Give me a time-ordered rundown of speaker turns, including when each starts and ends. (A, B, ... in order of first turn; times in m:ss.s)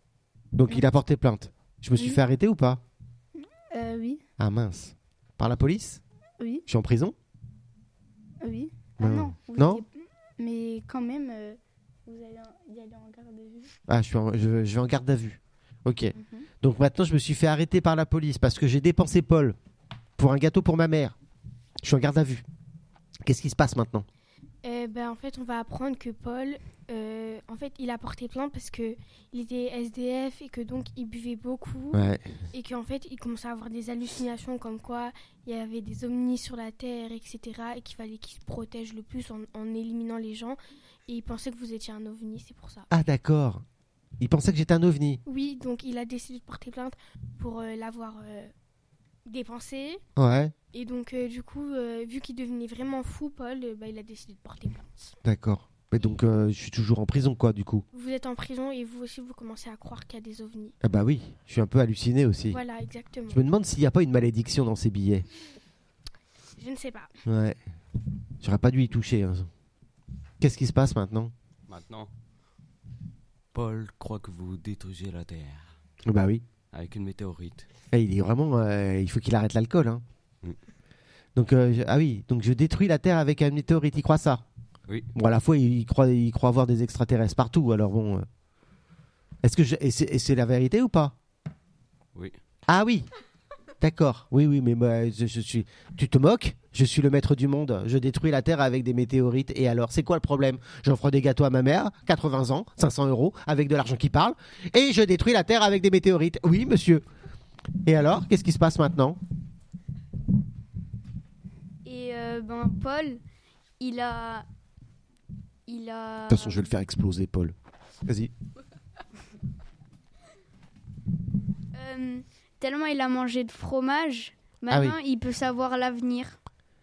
0:00.6-0:02.8 A
0:03.4-0:04.2 B
0:04.4-0:06.0 A
0:06.4-0:06.6 B
0:06.7-0:07.2 A
0:08.4-0:13.7 B
0:09.0-0:09.8 A
0:13.9-0:19.6 A
0:16.1-0:16.5 B
0:20.2-0:21.2 A
0:21.8-0:22.4 A
0:23.2-0:24.1 A
0:24.6-0:42.9 C
0:31.9-0:32.3 A
0:42.9-0:43.6 A
0:44.2-0:45.2 A
0:45.3-0:48.5 C
0:49.3-0:50.0 C
0:50.2-0:50.5 A
0:50.7-0:55.1 C
0:55.2-0:57.8 A
0:57.9-1:00.8 C
1:00.8-1:02.6 A
1:02.5-1:03.4 C
1:03.3-1:05.2 A
1:06.6-1:07.1 C
1:07.3-1:07.6 A
1:08.4-1:09.5 A
1:10.4-1:11.3 A
1:11.7-1:12.1 D
1:13.5-1:15.7 D
1:16.1-1:16.4 A
1:16.7-1:17.6 D
1:17.9-1:20.0 A
1:21.4-1:24.4 A
1:25.2-1:28.3 A
1:29.4-1:31.2 A
1:32.7-1:33.1 A
1:33.8-1:47.0 A
1:47.9-1:49.2 A
1:51.8-1:53.2 E
1:53.8-1:54.5 E
1:55.7-1:56.7 E
1:56.3-1:57.6 A
1:58.1-1:58.3 A
2:01.7-2:06.4 E
2:04.7-2:05.0 A